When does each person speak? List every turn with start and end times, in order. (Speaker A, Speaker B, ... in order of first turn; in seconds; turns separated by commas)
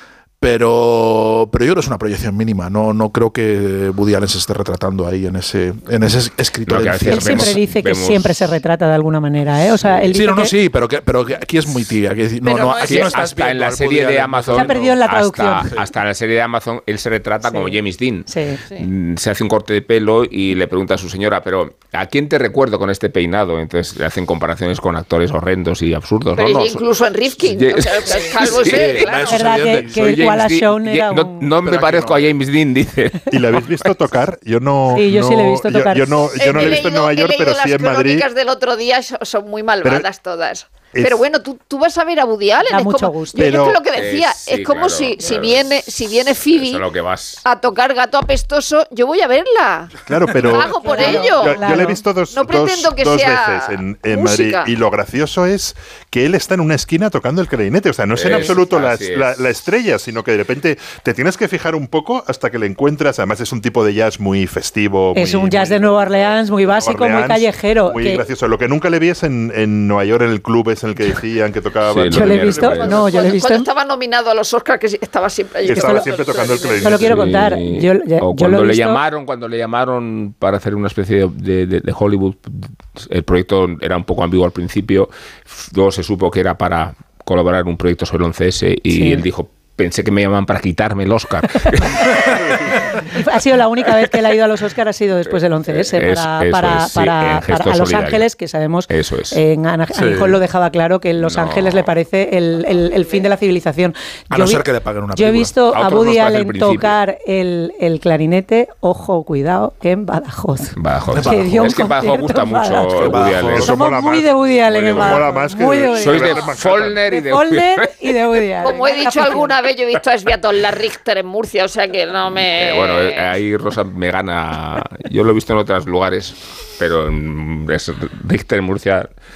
Speaker A: 0.4-7.6, Speaker B: 6.7-8.5, Speaker C: 7.1-10.5, Speaker A: 9.8-15.0, Speaker D: 12.4-13.2, Speaker B: 12.8-26.8, Speaker C: 14.5-15.7, Speaker C: 17.4-18.6, Speaker D: 26.4-29.6, Speaker B: 27.4-29.0, Speaker A: 28.5-30.2, Speaker C: 29.3-31.5, Speaker B: 29.8-33.6, Speaker A: 31.6-32.2, Speaker E: 33.3-38.2, Speaker C: 34.9-36.3, Speaker D: 36.4-46.8, Speaker E: 40.9-41.2, Speaker C: 42.6-43.5, Speaker E: 43.4-43.8, Speaker B: 43.9-47.4, Speaker D: 47.4-51.8, Speaker E: 50.1-73.1, Speaker C: 50.8-52.0, Speaker D: 52.3-54.7, Speaker B: 58.1-59.4, Speaker C: 65.1-68.2, Speaker B: 71.9-72.9, Speaker C: 72.1-73.7, Speaker D: 72.6-77.0, Speaker C: 75.6-76.1, Speaker E: 75.6-77.5, Speaker C: 76.8-79.0, Speaker B: 77.0-92.7, Speaker C: 88.9-89.2, Speaker C: 93.0-119.5, Speaker B: 95.7-98.2, Speaker B: 98.9-99.4, Speaker E: 100.0-100.4, Speaker B: 101.2-101.9, Speaker A: 104.3-105.5, Speaker B: 105.7-107.0, Speaker B: 110.8-113.8, Speaker A: 111.1-111.8, Speaker A: 113.0-113.7, Speaker E: 113.1-117.0, Speaker B: 114.7-115.3, Speaker B: 116.0-118.1, Speaker D: 118.6-123.2, Speaker B: 122.6-129.1